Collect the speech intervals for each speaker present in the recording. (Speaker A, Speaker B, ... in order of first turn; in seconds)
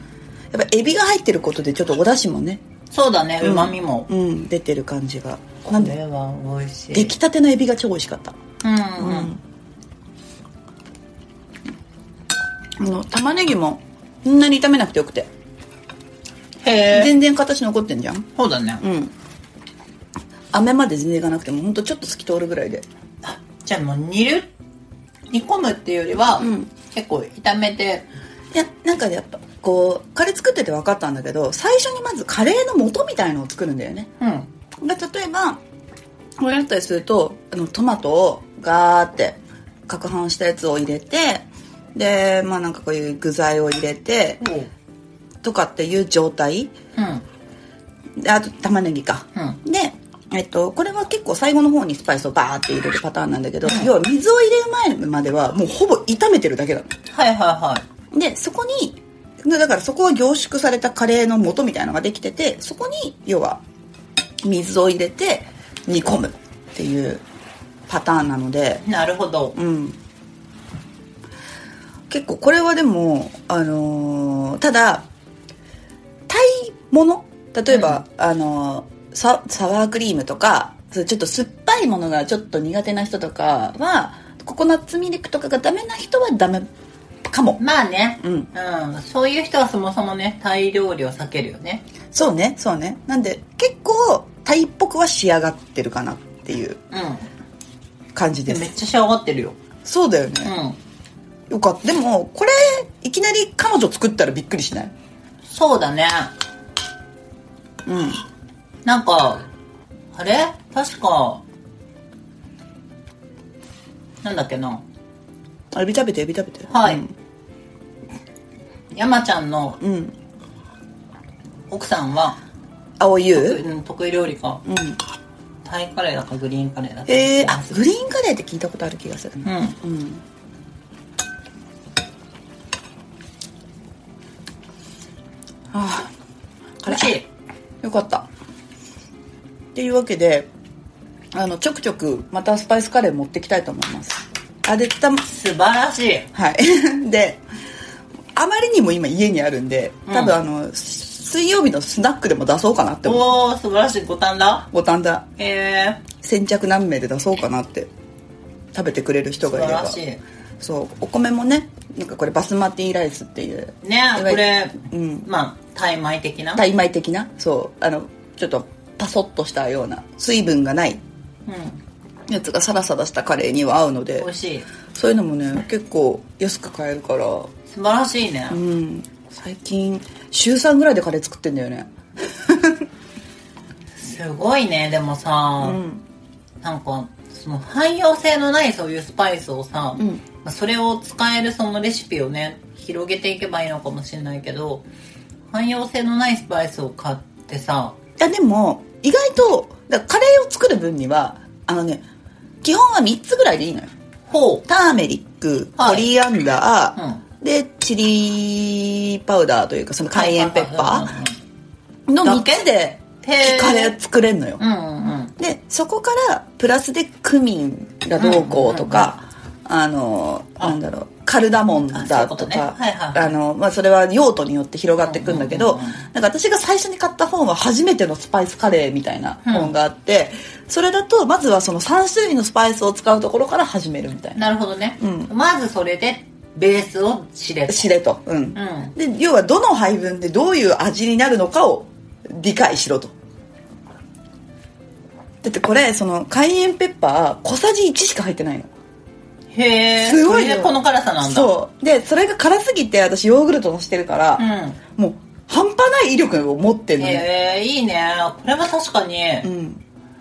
Speaker A: 0.5-2.6, 3.4-6.0, 6.9-8.3, 9.0-9.4, 12.8-15.3, 16.9-18.3, 18.8-19.1, 20.5-22.8, 26.4-26.7, 28.5-34.1, 34.8-35.6, 36.4-44.4, 45.4-46.7, 48.2-56.9, 58.1-63.6, 64.4-67.2, 67.9-68.8, 69.5-70.0, 72.1-75.1, 76.3-86.7, 87.3-87.6, 88.2-88.5, 92.1-96.8, 98.1-98.7, 99.8-100.5, 101.5-104.9, 107.8-108.2, 115.7-117.1, 119.8-120.1, 123.0-123.6, 124.7-125.0, 127.1-130.2, 135.7-136.1, 136.8-137.1, 137.8-138.3, 139.7-140.5, 141.3-145.2, 146.3-147.4, 148.3-153.3, 154.7-155.2, 156.2-157.9, 158.7-160.0, 160.6-165.3, 166.6-171.0, 172.3-174.3, 174.9-177.5, 178.5-182.8, 185.6-186.0, 198.2-202.0, 202.6-203.9, 204.7-211.2, 212.1-214.6, 215.4-234.4, 235.0-235.3, 237.7-243.1, 245.4-248.7, 250.0-257.2, 259.4-259.8
Speaker B: 2.9-4.1, 5.7-7.1, 8.6-9.3, 16.6-17.1, 18.4-18.8, 23.2-24.5, 25.3-28.0, 34.2-34.5, 44.4-44.7, 47.0-47.2, 53.6-53.9, 57.1-57.8, 68.8-69.5, 77.7-78.0, 87.6-91.8, 96.9-97.2, 98.5-99.6, 100.4-100.8, 105.5-106.3, 108.8-109.4, 110.1-111.4, 114.2-114.8, 116.7-117.0, 118.9-119.8, 121.7-122.3, 123.3-124.6, 125.6-127.8, 129.4-129.8, 136.8-137.2, 145.2-146.3, 150.1-150.3, 153.0-154.7, 155.4-156.0, 159.4-160.2, 163.8-166.6, 171.4-171.8, 174.2-174.7, 177.7-178.6, 183.9-185.8, 186.6-194.8, 195.5-197.9, 204.3-204.7, 205.8-206.1, 206.9-207.2, 210.1-211.4, 212.2-212.5, 213.2-213.9, 214.6-215.3, 218.2-219.1, 221.9-223.3, 225.0-226.0, 229.4-229.7, 234.3-237.9, 238.5-238.9, 249.5-251.5, 254.4-254.8, 257.0-259.5